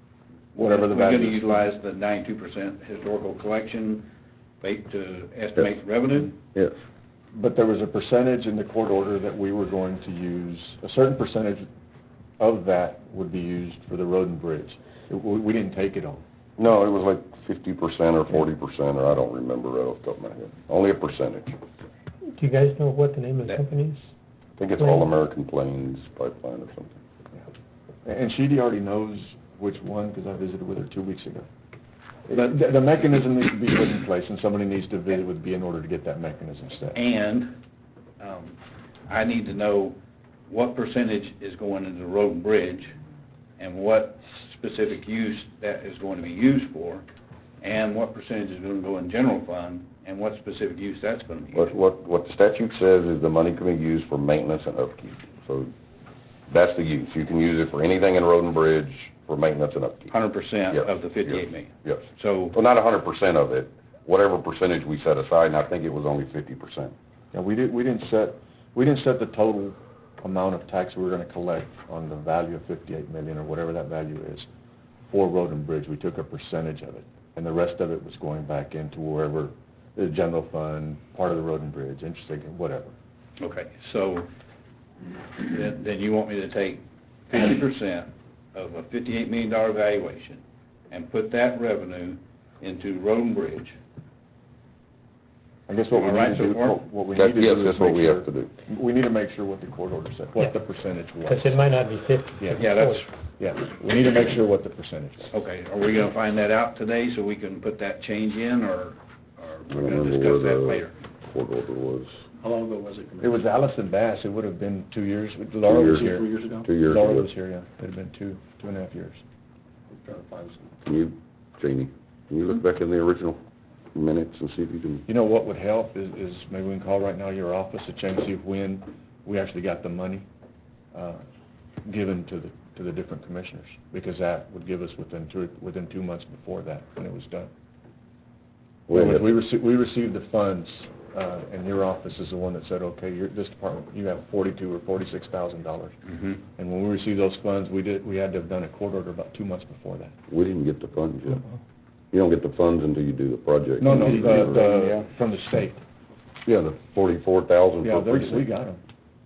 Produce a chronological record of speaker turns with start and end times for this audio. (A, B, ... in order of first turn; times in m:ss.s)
0:00.6-0:04.1 A
0:00.6-0:01.6 B
0:04.6-0:06.4 A
0:07.3-0:11.7 B
0:12.4-0:16.2 B
0:16.6-0:21.6 C
0:22.3-0:24.0 D
0:24.6-0:27.0 C
0:28.0-0:31.5 B
0:32.3-0:37.0 B
0:37.0-0:37.5 A
0:38.2-0:38.6 A
0:39.1-0:40.0 A
0:40.5-0:42.9 A
0:43.6-0:47.1 A
0:47.6-0:51.7 A
0:51.6-0:55.7 C
0:56.5-1:00.1 C
1:00.1-1:02.6 A
1:00.7-1:06.9 C
1:07.3-1:14.5 B
1:15.1-1:23.0 B
1:23.4-1:24.3 A
1:25.4-1:33.8 A
1:35.7-1:41.6 B
1:35.9-1:36.8 A
1:37.2-1:38.5 C
1:41.2-1:43.0 D
1:42.4-1:42.8 B
1:42.5-1:43.1 A
1:43.4-1:45.3 B
1:45.3-1:51.0 A
1:49.7-1:52.1 C
1:52.4-1:53.4 E
1:53.2-1:59.2 B
1:55.7-1:56.1 C
1:55.9-1:56.7 E
1:56.6-1:57.3 C
1:59.9-2:00.8 E
2:00.8-2:03.4 C
2:03.9-2:05.1 C
2:05.1-2:10.3 B
2:10.9-2:11.2 B
2:11.8-2:17.5 B
2:18.9-2:19.3 C
2:18.9-2:26.0 B
2:26.6-2:30.2 B
2:30.3-2:31.4 C
2:32.1-2:35.0 C
2:33.8-2:35.8 B
2:36.5-2:38.5 C
2:37.8-2:38.8 B